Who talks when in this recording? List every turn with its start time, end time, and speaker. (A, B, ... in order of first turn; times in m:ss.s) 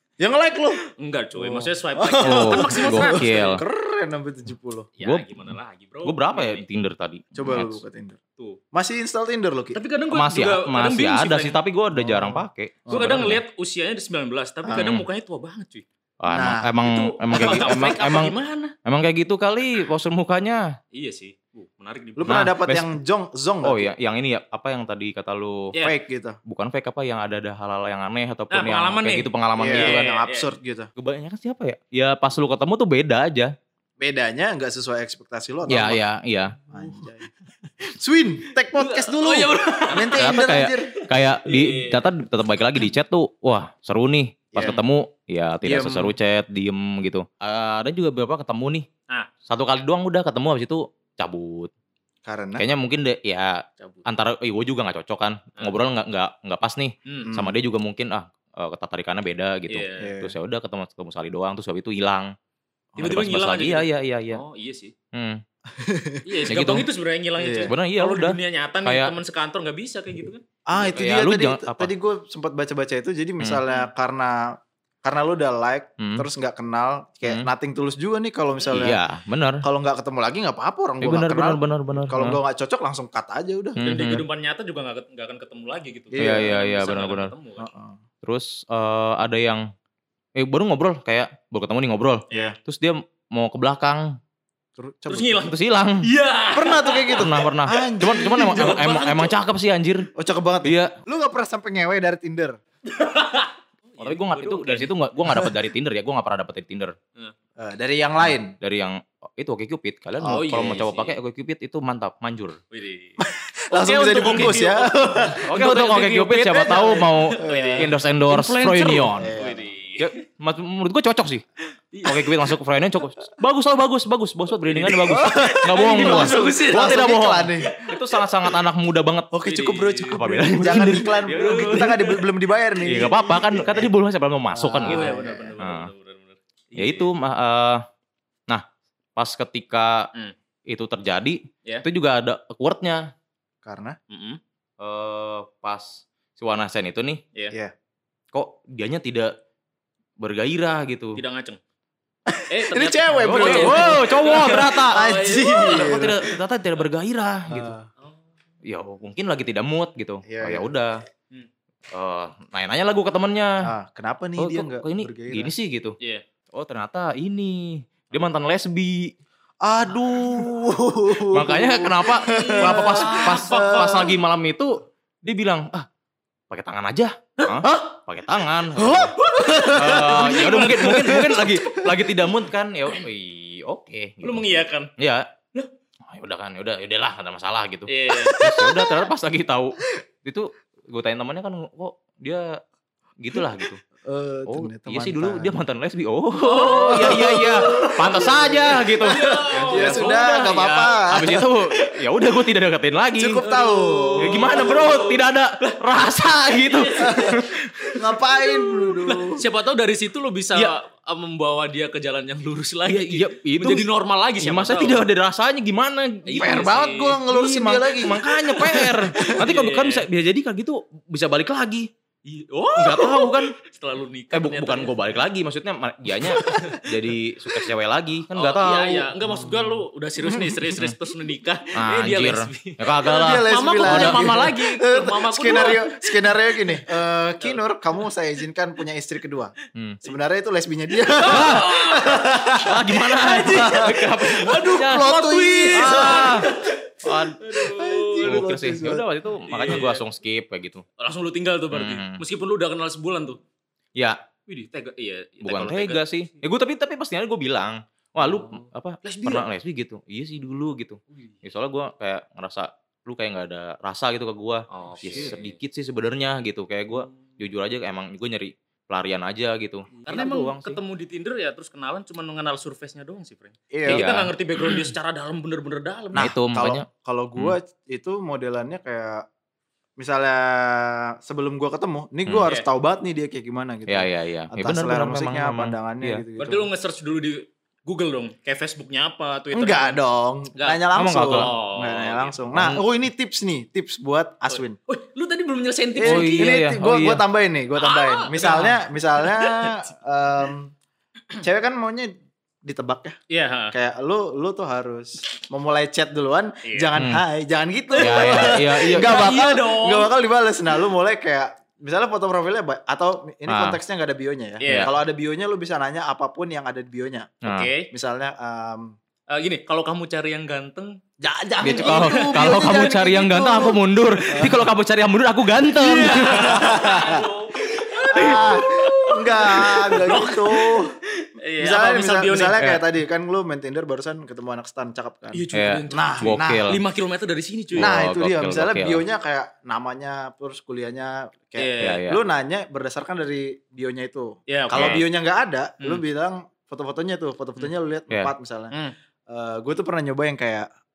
0:00.2-0:00.8 A
0:00.9-0:03.6 B
0:01.3-0:04.9 A
0:02.2-0:03.6 C
0:05.0-0:06.6 B
0:05.0-0:05.3 C
0:06.0-0:07.8 C
0:07.4-0:08.2 A
0:08.7-0:09.8 A
0:09.7-0:11.6 B
0:10.1-0:13.4 C
0:11.9-0:13.3 A
0:12.9-0:15.8 B
0:14.7-0:15.0 C
0:16.2-0:20.7 C
0:16.3-0:16.7 A
0:16.8-0:18.7 B
0:17.3-0:17.8 A
0:20.9-0:22.4 B
0:22.2-0:23.9 A
0:22.3-0:22.9 C
0:23.6-0:25.7 C
0:25.8-0:26.4 A
0:26.4-0:30.0 C
0:28.5-0:30.5 B
0:29.6-0:30.9 A
0:31.0-0:33.5 C
0:34.0-0:36.0 A
0:35.7-0:36.6 C
0:36.7-0:37.3 A
0:37.9-0:40.9 A
0:38.7-0:40.4 B
0:40.1-0:48.9 C
0:41.0-0:42.0 B
0:44.5-0:44.8 A
0:45.6-0:46.1 A
0:49.4-0:51.7 C
0:52.2-0:52.6 A
0:52.6-1:02.3 C
0:53.8-0:54.1 B
0:57.0-0:57.3 B
0:57.2-0:57.5 A
0:59.7-1:00.1 B
1:00.0-1:00.3 A
1:03.0-1:04.4 C
1:03.0-1:04.9 B
1:05.1-1:05.4 C
1:05.7-1:06.6 A
1:06.2-1:10.9 B
1:06.5-1:06.9 C
1:07.4-1:07.7 A
1:07.6-1:09.1 C
1:10.7-1:19.0 A
1:10.8-1:11.9 C
1:16.0-1:16.2 C
1:17.2-1:17.5 C
1:18.7-1:19.6 C
1:19.6-1:23.8 A
1:21.0-1:22.4 C
1:23.8-1:24.2 C
1:23.8-1:27.7 B
1:26.1-1:26.5 A
1:26.2-1:27.3 C
1:27.6-1:28.0 A
1:28.2-1:29.7 C
1:30.4-1:34.2 C
1:34.8-1:35.5 A
1:35.1-1:39.3 B
1:35.4-1:36.1 C
1:36.5-1:38.9 A
1:37.2-1:40.1 C
1:40.1-1:42.6 A
1:40.6-1:40.9 C
1:42.8-1:44.9 B
1:44.0-1:47.0 C
1:47.6-1:48.5 A
1:48.6-1:52.6 C
1:50.2-1:51.2 B
1:52.7-1:53.2 B
1:53.2-1:55.5 A
1:53.7-2:00.1 B
1:54.2-1:54.5 C
1:55.4-1:59.3 C
1:56.4-1:57.9 A
1:59.2-1:59.7 A
2:00.0-2:01.4 C
2:01.9-2:02.5 B
2:02.0-2:09.3 C
2:04.6-2:08.6 B
2:05.0-2:07.7 A
2:09.3-2:13.9 A
2:09.5-2:13.3 B
2:10.1-2:12.0 C
2:12.8-2:15.9 C
2:14.5-2:15.6 A
2:14.8-2:17.1 B
2:16.8-2:17.8 C
2:19.2-2:20.1 C
2:20.7-2:23.1 C
2:23.6-2:24.0 A
2:24.1-2:24.4 B
2:24.8-2:27.2 C
2:28.3-2:29.3 C
2:30.2-2:31.2 C
2:31.2-2:31.6 B
2:32.3-2:36.3 A
2:32.5-2:36.1 B
2:33.2-2:37.7 C
2:37.5-2:37.9 A
2:38.6-2:41.0 C
2:40.2-2:40.7 A
2:41.9-2:43.6 C
2:43.6-2:45.5 A
2:44.4-2:46.0 C
2:46.5-2:49.1 C
2:49.6-2:54.2 A
2:49.8-2:50.6 C
2:51.2-2:55.9 C
2:52.3-2:54.1 B
2:56.5-2:59.2 C
2:58.8-3:01.8 A
2:59.2-3:01.8 B
2:59.7-3:04.4 C
3:04.2-3:04.9 B
3:05.0-3:05.3 C
3:06.0-3:12.6 C
3:07.9-3:08.4 B
3:08.1-3:09.0 A
3:13.2-3:13.8 C
3:14.0-3:15.6 A
3:14.5-3:23.4 C
3:16.5-3:18.0 B
3:16.5-3:21.5 A
3:19.0-3:21.0 B
3:23.2-3:24.8 A
3:23.4-3:25.8 B
3:24.2-3:27.9 C
3:26.5-3:35.0 B
3:27.0-3:29.4 A
3:32.8-3:33.9 C
3:34.4-3:36.7 C
3:36.2-3:37.2 B
3:36.4-3:39.4 A
3:37.2-3:41.9 C
3:38.6-3:40.0 B
3:42.2-3:45.0 B
3:42.8-3:43.5 C
3:44.3-3:49.1 C
3:46.2-3:47.0 B
3:48.3-3:56.9 B
3:49.2-3:50.9 A
3:51.7-3:54.5 C
3:53.0-3:59.5 A
3:57.4-3:58.0 B
3:59.8-4:00.0 C
4:00.0-4:06.7 A
4:01.1-4:08.4 B
4:01.2-4:01.7 C
4:02.6-4:06.5 C
4:07.0-4:07.4 C
4:07.5-4:09.0 A
4:08.2-4:10.8 C
4:09.5-4:10.0 B
4:11.0-4:13.4 B
4:11.7-4:12.2 C
4:14.5-4:16.0 B
4:15.4-4:30.8 C
4:18.2-4:19.4 B
4:24.7-4:25.5 B
4:30.0-4:36.3 B
4:33.7-4:34.0 A
4:33.9-4:34.3 C
4:36.1-4:37.5 C
4:36.1-4:39.2 A
4:40.0-4:46.7 A
4:43.9-4:46.2 C
4:46.4-4:50.0 B
4:49.5-4:54.8 A
4:50.6-4:52.4 B
4:50.9-4:51.5 C
4:52.5-4:52.8 C
4:54.5-4:56.6 B
4:56.0-5:00.7 A
4:56.0-4:57.2 C
4:57.8-4:59.8 B
5:01.4-5:02.1 A
5:02.6-5:03.2 A
5:03.3-5:03.7 B
5:03.7-5:17.3 A
5:07.0-5:07.2 C
5:08.0-5:10.1 B
5:08.0-5:09.3 C
5:13.5-5:13.8 C
5:14.6-5:14.9 B
5:17.4-5:17.7 C
5:17.4-5:17.9 B
5:17.9-5:18.9 A
5:19.3-5:21.0 B
5:21.2-5:24.6 A
5:21.6-5:26.9 C
5:21.8-5:22.8 B
5:24.1-5:24.6 B
5:25.8-5:32.6 B
5:25.9-5:27.3 A
5:28.1-5:31.0 A
5:28.1-5:28.6 C
5:31.6-5:36.7 A
5:35.3-5:37.9 B
5:35.5-5:36.8 C
5:37.7-5:39.0 C
5:37.8-5:48.7 A
5:41.6-5:42.0 B
5:41.8-5:42.2 C
5:44.5-5:45.1 B
5:44.7-5:45.0 C
5:49.3-5:50.7 A